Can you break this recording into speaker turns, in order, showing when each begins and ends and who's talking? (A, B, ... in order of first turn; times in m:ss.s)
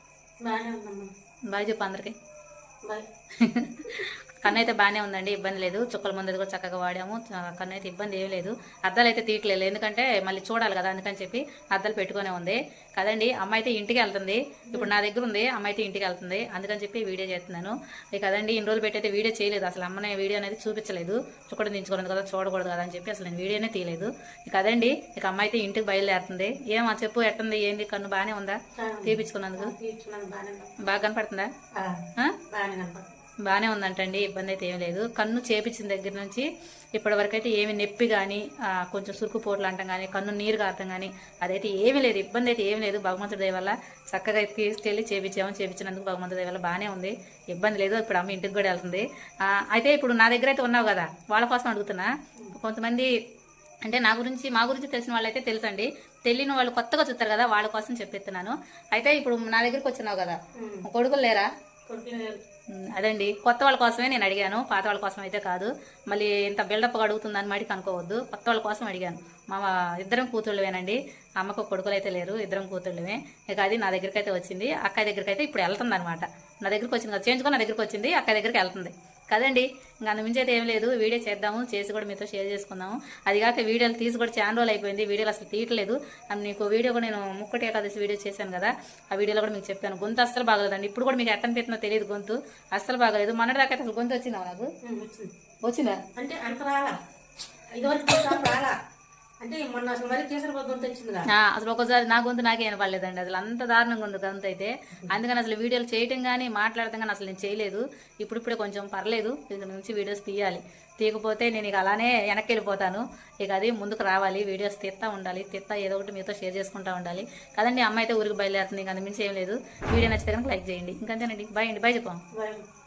0:00.4-0:01.1 A
0:01.5-0:02.1 B
0:03.4-0:29.7 B
0:28.8-0:30.7 A
0:30.8-0:31.5 B
0:31.7-0:33.1 A
0:33.4-0:53.1 B
0:53.8-1:01.5 B
1:00.6-1:00.8 A
1:01.9-1:02.4 A
1:02.7-1:34.7 B
1:34.8-1:35.3 A
1:35.6-1:36.0 B
1:36.1-1:37.0 A
1:37.7-1:38.8 A
1:39.4-1:41.3 A
1:41.3-2:02.2 B
2:02.3-2:02.6 A